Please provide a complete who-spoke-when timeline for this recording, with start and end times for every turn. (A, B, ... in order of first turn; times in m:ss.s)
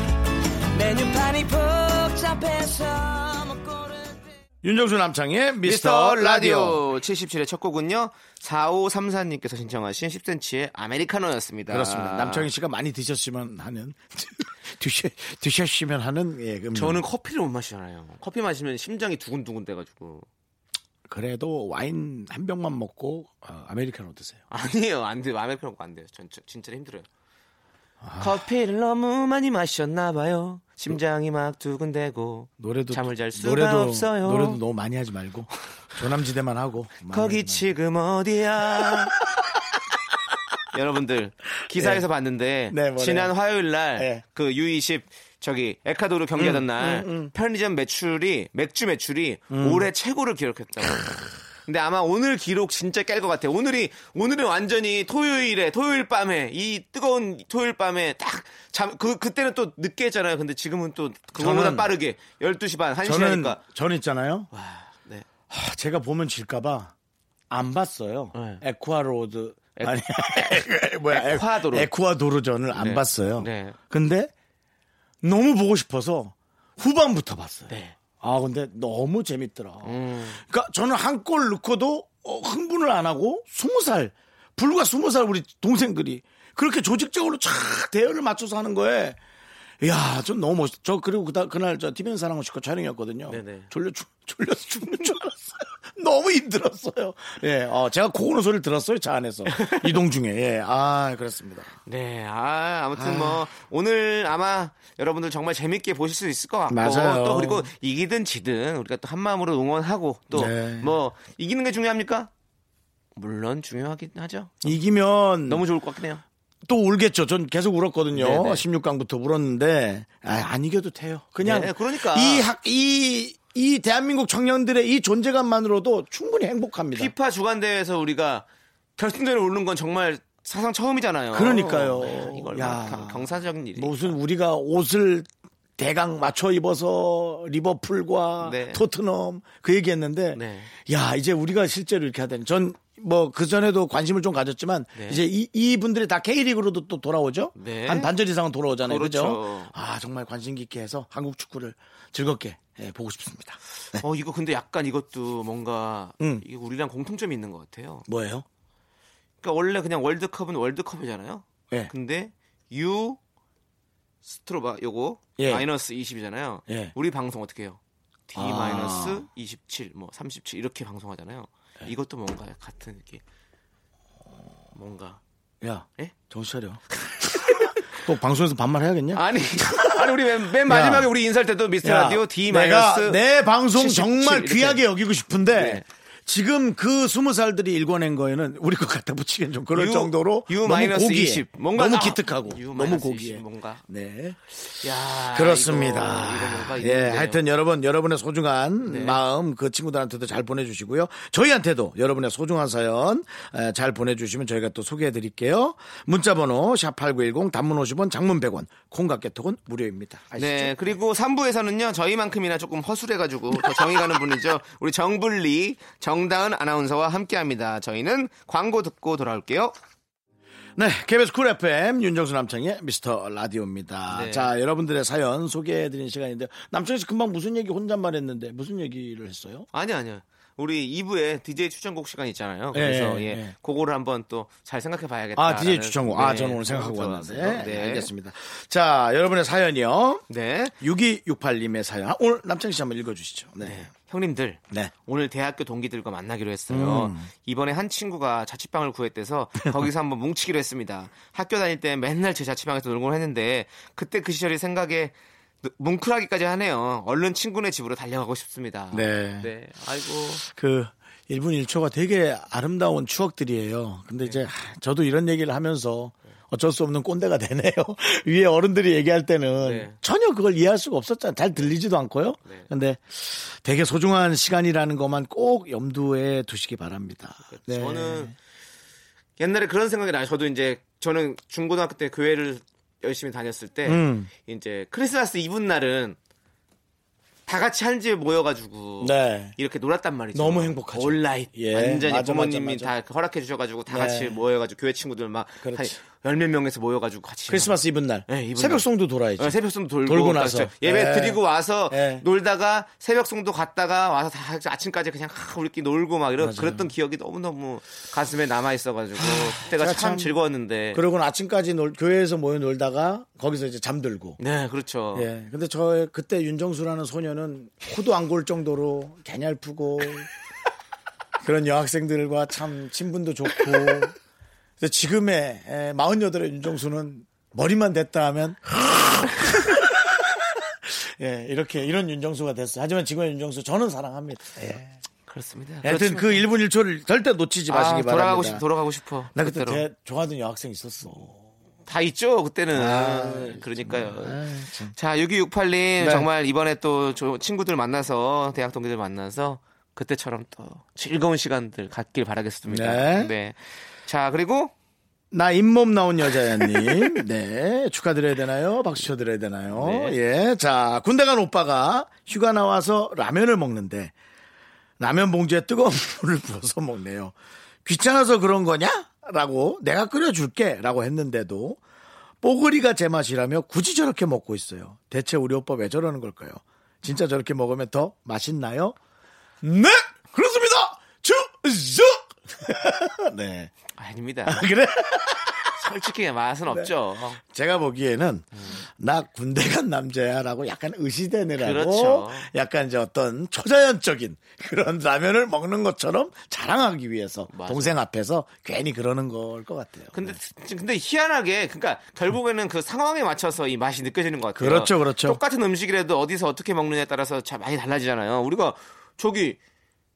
0:00.7-0:04.4 A
0:04.6-0:06.8 B
0:05.6-0:12.5 C
0:11.7-0:17.0 B
0:16.7-0:20.2 C
0:21.1-0:24.4 B
0:24.5-0:27.1 C
0:28.0-0:28.4 B
0:28.2-0:34.6 C
0:32.6-0:37.6 B
0:37.1-0:39.2 C
0:38.7-0:39.4 B
0:40.7-1:03.6 C
0:41.7-0:42.0 B
0:42.7-0:43.3 B
0:44.0-0:44.2 B
0:46.4-0:47.3 B
0:49.5-0:49.9 B
1:01.4-1:01.9 B
1:03.0-1:04.5 B
1:04.5-1:05.2 C
1:05.5-1:06.9 B
1:07.5-1:14.3 B
1:08.3-1:08.6 C
1:09.8-1:11.9 C
1:12.8-1:13.8 C
1:15.2-1:29.2 B
1:17.7-1:18.0 C
1:19.8-1:20.4 C
1:29.8-1:41.7 B
1:33.3-1:33.7 C
1:39.5-1:40.0 C
1:41.9-1:52.3 C
1:42.9-1:43.4 B
1:46.7-1:47.7 B
1:50.3-1:51.0 B
1:53.2-1:54.8 C
1:54.6-1:55.6 B
1:55.4-1:56.2 C
1:56.6-2:07.1 B
1:58.1-1:58.6 C
2:01.4-2:02.5 C
2:06.9-2:08.4 C
2:09.0-2:14.2 C
2:11.3-2:34.0 B
2:18.4-2:18.8 C
2:20.3-2:20.7 C
2:24.9-2:25.2 C
2:27.6-2:28.1 C
2:28.8-2:29.7 C
2:34.0-2:38.0 C
2:38.1-2:38.4 B
2:39.4-2:43.2 C
2:44.2-2:53.2 C
2:45.4-2:45.6 B
2:46.7-2:46.9 B
2:48.3-2:49.2 B
2:54.8-2:55.2 C
2:55.6-3:00.1 B
2:57.0-2:57.9 C
2:59.1-3:03.2 C
3:00.6-3:01.1 B
3:01.8-3:14.4 B
3:03.7-3:04.8 C
3:05.5-3:05.8 C
3:09.7-3:13.8 C
3:14.8-3:17.4 C
3:15.2-3:31.0 B
3:18.9-3:19.2 C
3:30.4-3:39.7 C
3:33.6-3:34.0 B
3:40.8-3:49.7 B
3:44.1-3:44.5 C
3:49.7-3:58.1 C
3:52.7-3:53.5 B
3:55.4-4:00.2 B
4:00.3-4:00.7 C
4:00.8-4:03.9 B
4:03.6-4:20.4 C
4:06.7-4:07.3 B
4:18.9-4:19.5 B
4:20.4-4:38.3 B
4:29.6-4:30.0 C
4:37.5-4:38.3 C
4:39.4-4:46.2 C
4:43.9-4:44.3 B
4:47.5-5:11.0 C
4:49.0-4:49.6 B
4:50.3-4:52.9 B
4:53.9-4:54.4 B
4:55.6-4:55.9 B
4:57.5-5:02.2 B
5:06.4-5:06.9 B
5:09.2-5:10.3 B
5:10.9-5:14.4 B
5:14.4-5:15.3 C
5:15.1-5:20.3 B
5:21.4-5:24.2 B
5:24.8-5:35.0 B
5:35.3-5:36.4 C
5:35.8-5:38.6 B
5:37.7-5:39.8 C
5:39.3-5:41.5 B
5:41.9-5:54.7 C
5:42.7-5:44.9 B
5:46.0-5:46.3 B
5:52.7-5:53.3 B
5:55.3-6:04.1 B
5:59.7-6:00.2 C
6:05.0-6:11.8 B
6:12.4-6:19.0 B
6:19.6-6:23.7 B
6:23.9-6:24.6 C
6:24.5-6:25.9 B
6:25.8-6:27.4 C
6:26.7-6:40.4 B
6:31.6-6:32.5 C
6:37.5-6:38.0 C
6:40.1-6:49.6 C
6:44.6-6:45.4 B